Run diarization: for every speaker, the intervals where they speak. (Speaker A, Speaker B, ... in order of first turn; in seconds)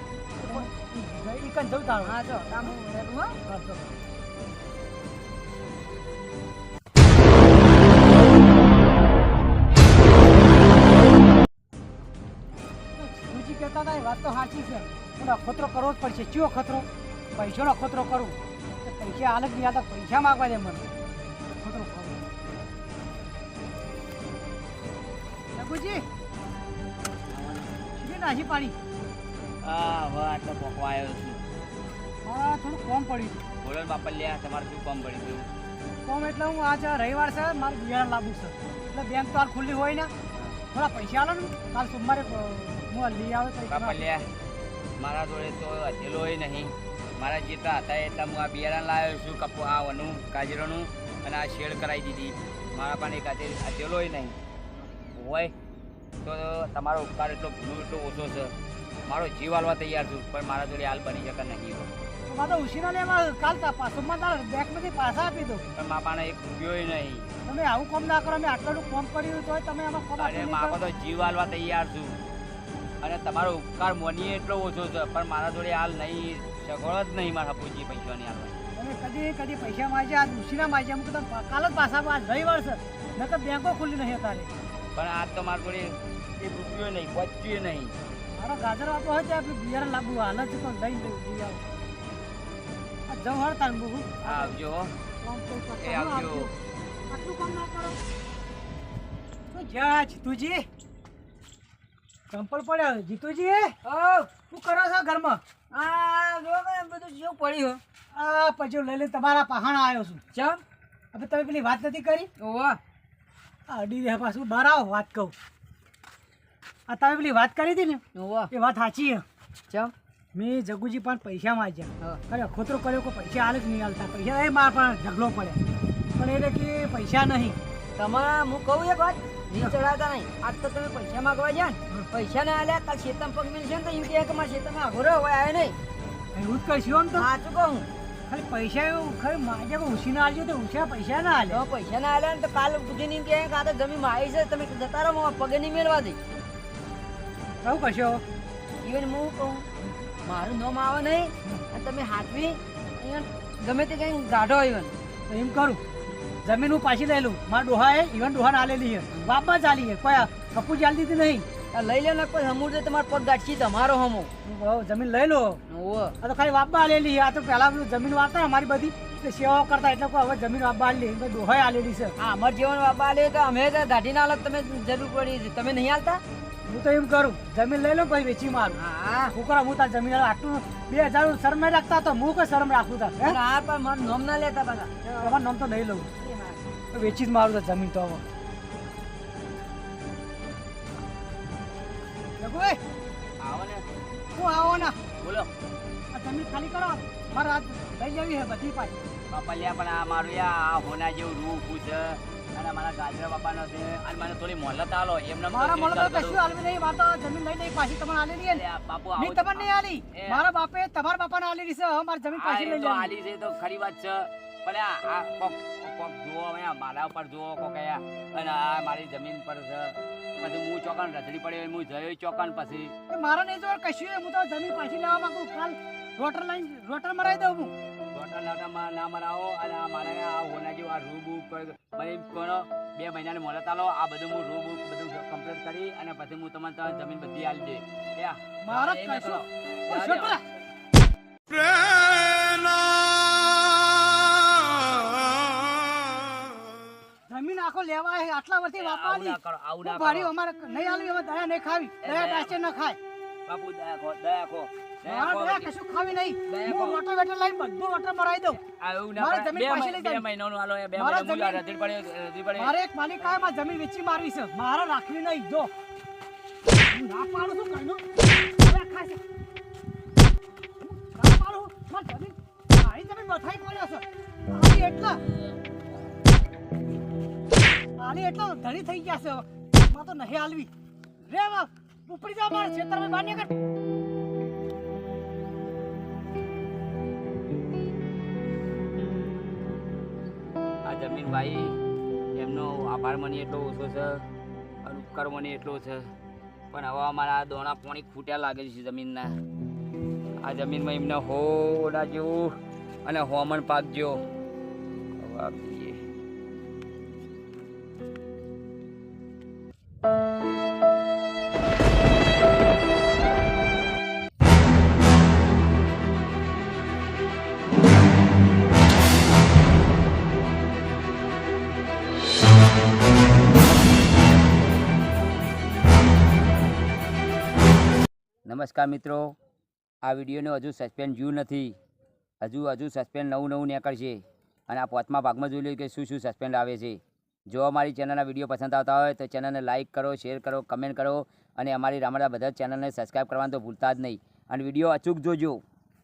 Speaker A: 0.4-2.8, 3.5-3.8, 12.9-20.9, 21.6-22.2, 25.6-26.0, 28.0-28.8, 32.2-33.4, 36.0-40.1, 40.7-44.0, 62.3-65.6, 67.5-70.8, 78.8-84.5, 88.3-91.6, 93.1-94.5, 95.2-96.5, 97.1-98.0, 99.5-100.7, 102.3-103.7, 104.5-105.4, 108.1-110.2, 111.1-112.3, 113.7-115.3, 116.9-119.2, 120.3-125.6, 126.2-127.6, 136.3-137.3, 138.3-141.7, 147.6-148.2, 155.3-155.8, 156.4-161.5, 164.4-165.6, 166.2-172.1, 176.7-178.8, 179.3-183.4, 185.2-186.1, 186.9-188.2, 192.4-192.8, 194.3-195.0, 196.1-199.0, 205.5-208.6, 209.2-213.2, 223.1-227.7, 238.6-240.4, 247.3-253.0, 255.0-258.6, 259.2-260.3, 261.0-261.6, 262.6-265.7, 266.9-268.0, 268.6-269.2, 270.9-275.2, 278.0-280.7, 281.3-283.5
Speaker B: 2.0-3.4, 103.8-104.3, 105.7-107.8, 110.3-110.6, 112.4-112.8, 118.2-118.5, 128.0-135.8, 137.2-137.9, 141.5-146.2, 148.8-149.7, 150.3-154.9, 161.7-164.3, 165.7-166.2, 172.2-176.2, 178.7-179.3, 183.2-185.4, 186.2-186.6
Speaker C: 27.3-27.7, 29.6-31.4, 33.6-35.5, 40.4-40.6, 43.7-44.3, 45.0-54.4, 55.2-55.5, 56.2-58.5, 59.1-61.9, 65.8-67.3, 70.2-72.2, 73.0-78.6, 85.0-88.0, 94.2-94.9, 95.8-96.5, 193.4-193.8, 195.2-195.5, 199.3-206.4, 208.5-210.4, 212.3-222.9, 228.1-240.4, 248.8-250.3, 252.0-252.6, 253.5-255.7, 256.5-257.0, 258.7-262.8, 290.9-291.8, 292.3-294.2, 294.8-296.1, 296.7-299.4, 300.4-304.2, 305.2-306.0, 328.5-329.4, 330.0-331.8, 332.4-345.6